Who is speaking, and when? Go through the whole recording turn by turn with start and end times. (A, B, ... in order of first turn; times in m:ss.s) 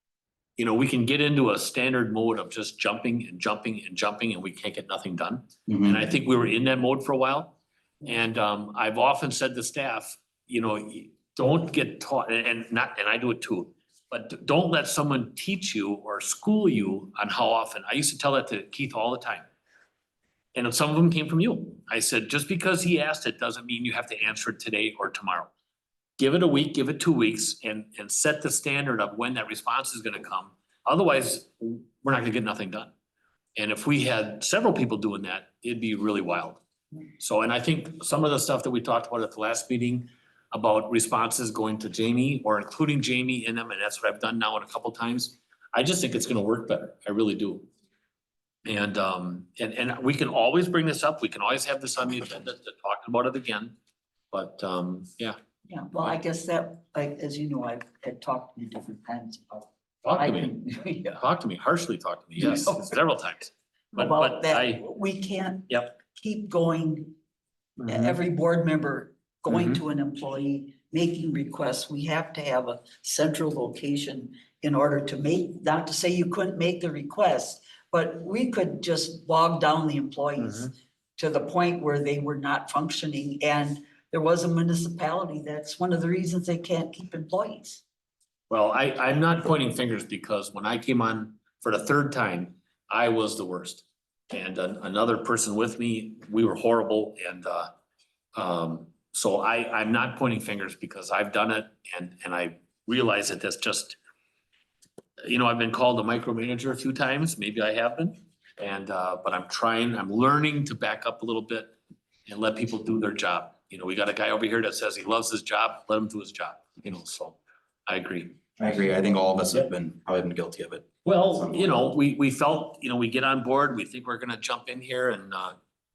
0:00.6-0:19.5 A
0:20.5-0:25.5 A
0:26.2-0:32.9 A
0:33.6-0:36.6 A
0:37.2-0:47.7 A
0:48.6-0:53.8 A
0:54.3-0:55.4 A
0:55.7-1:01.2 B
1:00.0-1:00.6 A
1:01.1-1:04.8 A
1:02.4-1:03.0 B
1:03.9-1:07.1 B
1:05.7-1:06.0 A
1:07.8-1:08.2 A
1:07.9-1:27.8 B
1:09.5-1:09.8 A
1:20.4-1:20.7 A
1:28.5-1:37.7 A
1:38.4-1:44.0 A
1:45.2-1:51.8 A
1:52.3-1:58.4 A
1:58.6-2:00.9 C
2:01.0-2:05.6 A